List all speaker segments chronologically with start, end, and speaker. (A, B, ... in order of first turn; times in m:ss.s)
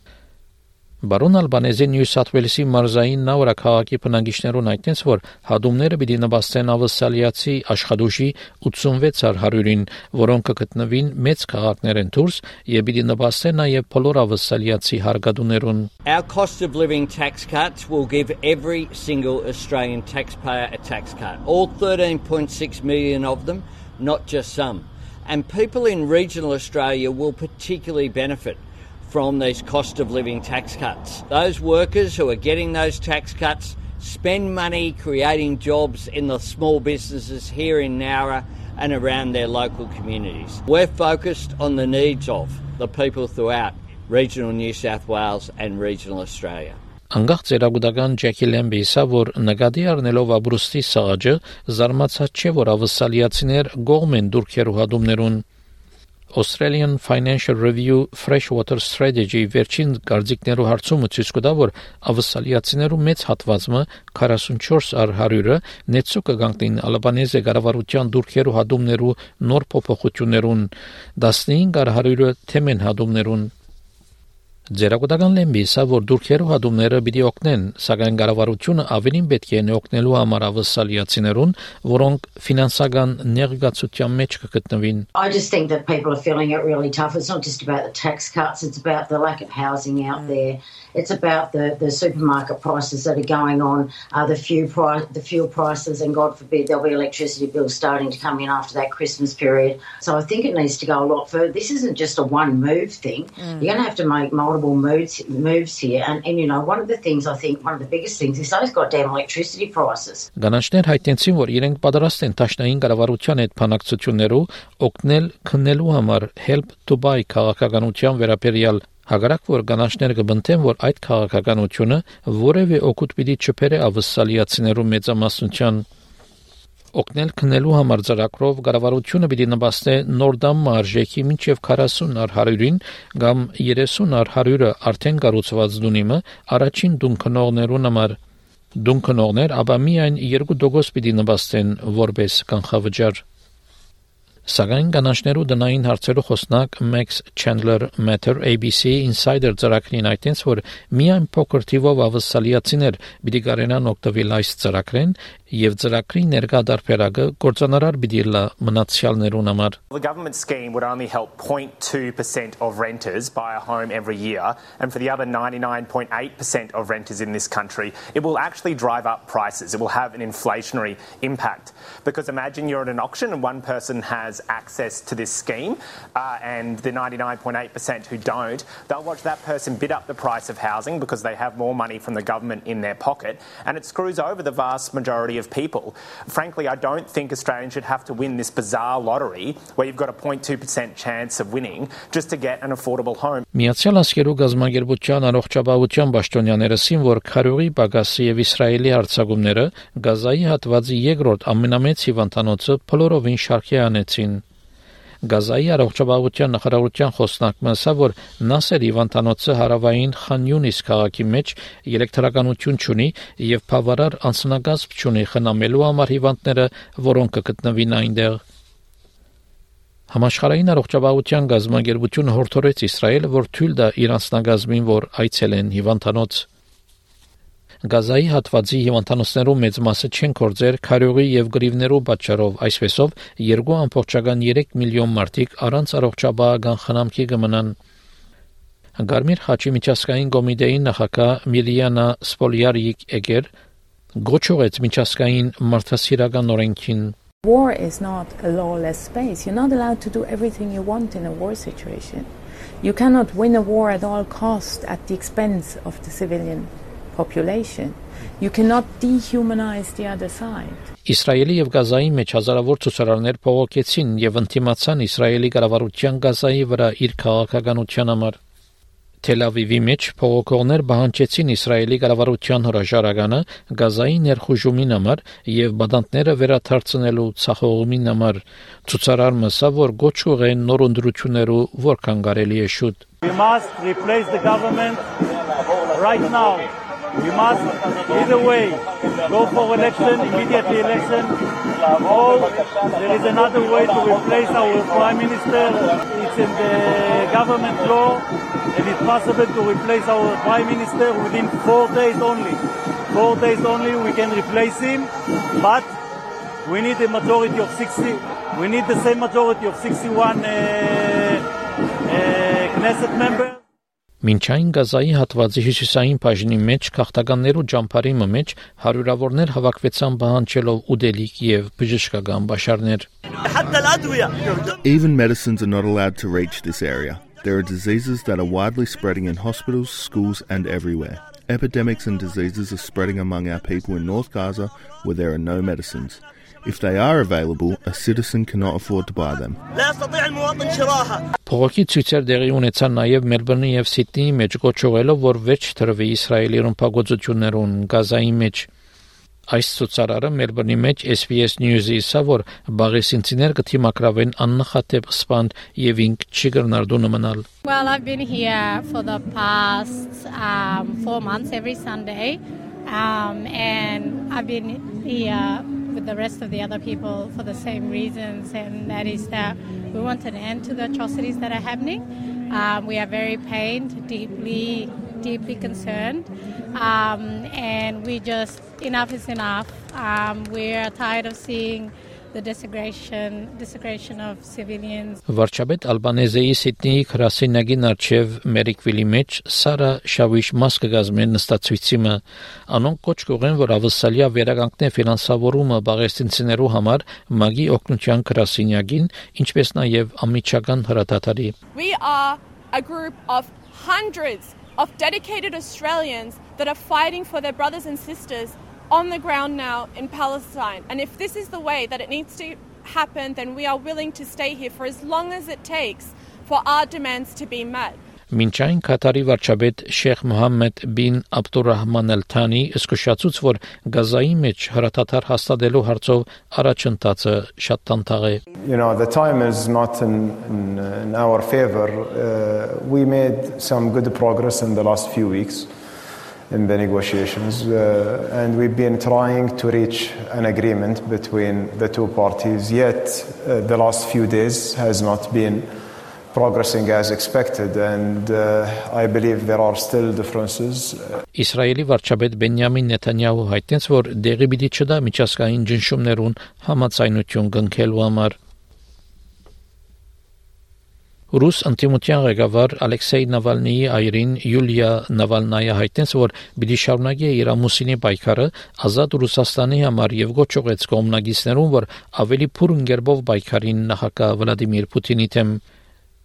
0:01.0-0:15.9 A
0:16.1-0:46.8 B
0:47.1-0:55.4 A
0:56.3-1:13.5 A
1:14.8-1:25.0 A
1:25.2-1:50.3 C
1:50.4-2:05.8 A
2:07.0-2:18.2 A
2:18.8-2:23.2 A
2:24.5-2:39.8 A
2:39.9-2:55.8 D
2:45.9-2:46.6 E
2:50.3-2:51.4 E
2:52.9-2:53.2 E
2:56.4-3:13.4 D
2:57.2-2:59.2 E
3:01.6-3:03.2 E
3:09.6-3:10.8 E
3:11.4-3:13.3 E
3:13.5-3:24.4 A
3:25.3-3:38.4 A
3:40.1-3:46.4 A
3:47.9-3:57.7 A
3:59.0-4:03.5 A
4:04.2-4:07.2 A
4:07.4-4:12.3 F
4:12.8-4:20.8 F
4:21.1-4:28.4 A
4:29.2-4:43.0 A
4:43.2-4:45.0 G
4:45.9-4:51.4 G
4:52.0-4:58.2 G
4:58.7-5:02.6 G
5:03.1-5:05.9 G
5:06.6-5:11.4 G
5:12.1-5:13.6 G
5:14.2-5:23.1 A
5:23.6-5:24.1 E
5:24.8-5:39.6 E
5:41.5-5:48.7 A
5:49.5-5:57.4 A
5:57.6-6:25.2 H
6:25.3-6:41.5 A
6:41.8-6:58.0 I
6:58.3-7:08.4 A
7:08.6-7:15.7 J
7:16.5-7:25.7 J
7:26.3-7:31.0 J
7:31.4-7:38.4 A
7:41.3-7:55.6 A